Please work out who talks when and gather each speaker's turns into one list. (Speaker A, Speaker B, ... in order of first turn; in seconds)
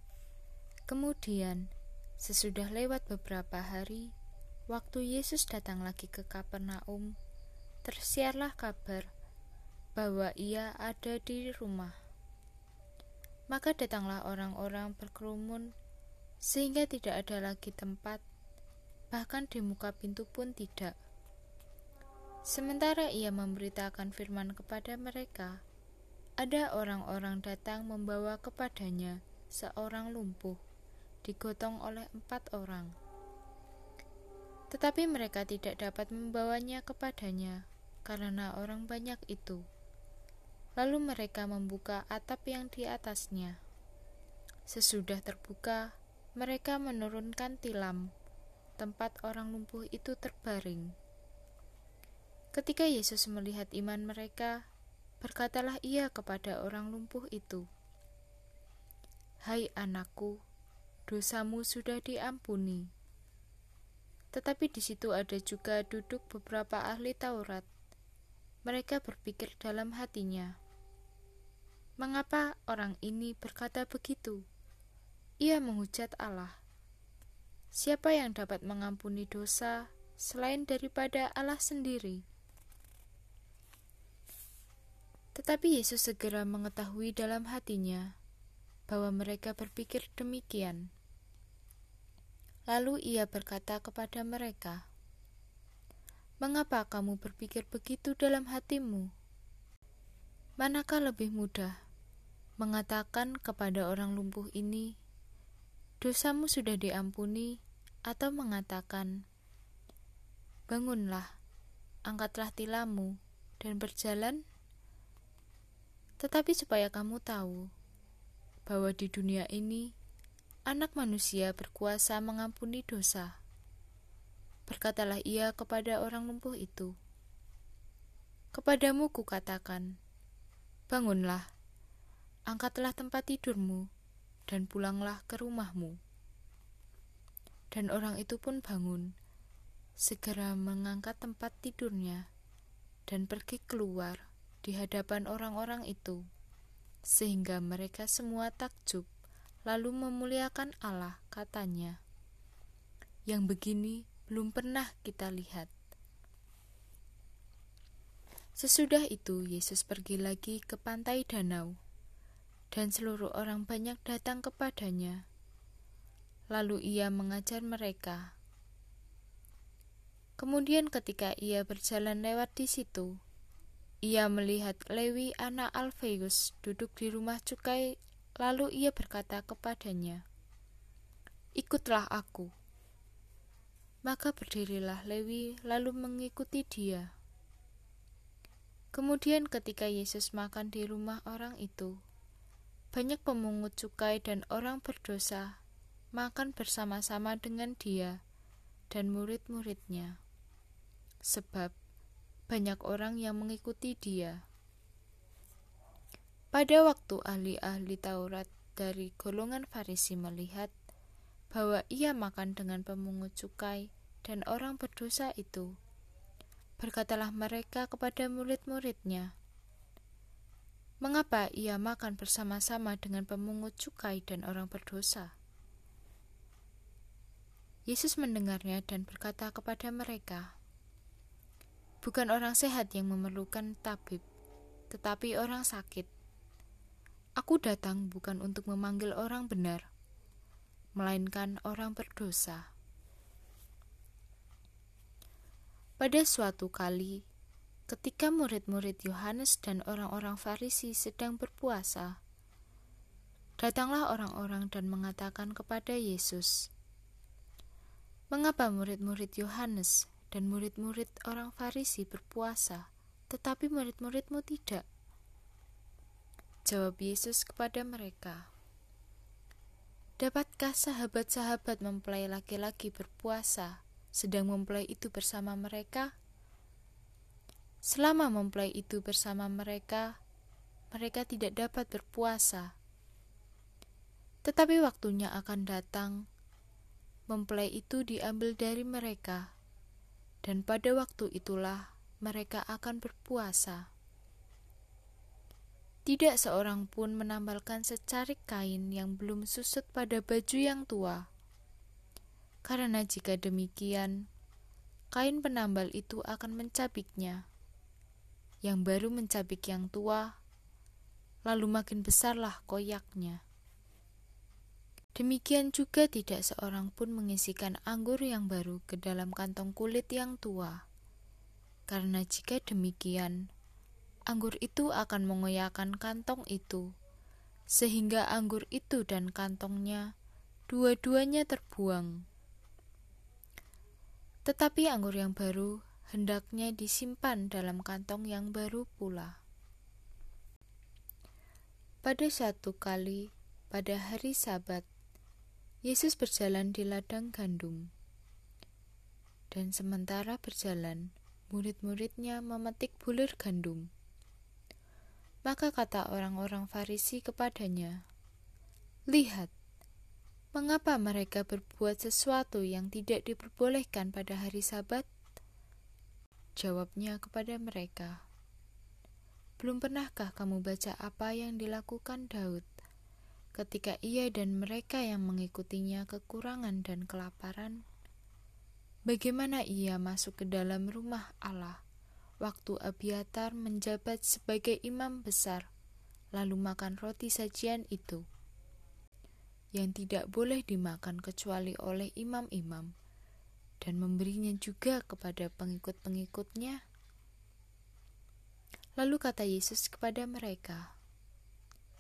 Speaker A: 0.9-1.7, 2.2-4.1, 4.7-7.1, 7.8-9.1, 9.9-11.9, 13.5-15.7, 16.5-18.2, 19.1-20.9, 22.5-25.6, 26.4-30.6, 31.2-32.9, 34.7-39.6, 40.8-43.6, 44.7-48.1, 48.8-50.9, 52.5-54.5, 55.2-57.6, 59.5-60.3, 61.1-62.9, 64.3-67.7, 68.7-70.5, 72.0-74.4, 75.4-76.6, 77.7-82.2, 85.3-88.1, 88.9-90.8, 92.7-94.8, 96.4-99.1, 100.6-101.8, 102.6-104.9, 106.0-107.5, 108.1-109.1, 110.7-111.3, 112.1-114.4, 116.2-117.7, 118.7-119.9, 120.7-123.3, 124.7-126.9, 128.5-129.9, 130.9-131.5, 132.5-133.8, 134.5-136.0, 137.7-139.1, 140.0-142.2, 143.1-146.2, 147.1-149.1, 149.7-152.0, 153.3-155.7, 158.6-161.8, 162.7-165.2, 166.5-168.3, 170.4-173.1, 174.1-177.9, 178.4-180.2, 181.6-182.5, 184.1-187.1, 188.9-191.9, 192.9-195.5, 196.2-198.2, 198.9-200.1, 201.3-201.7, 202.5-204.4, 206.5-210.7, 211.5-215.7, 216.8-219.3, 221.0-225.3, 227.9-230.5, 232.0-234.2, 234.9-236.1, 237.4-239.8, 241.0-242.7, 246.0-247.2, 247.9-252.2, 253.6-256.5, 258.3-264.8, 266.7-268.5, 270.2-276.1, 277.9-280.1, 280.9-282.7, 284.5-286.2, 287.3-289.5, 290.4-293.9, 296.1-301.2, 302.7-304.1, 305.1-307.4, 308.6-310.3, 311.5-313.4, 315.2-320.8, 321.9-323.4, 324.3-326.9, 327.7-330.1, 330.7-332.2, 334.5-339.4, 342.0-344.9, 345.9-347.9, 349.5-353.9, 355.4-357.9, 359.1-359.5, 360.6-365.1, 366.6-368.2, 369.6-372.7, 373.6-377.8, 379.1-381.8, 382.4-385.6, 386.4-388.2, 389.8-392.9, 393.8-396.8, 399.0-400.9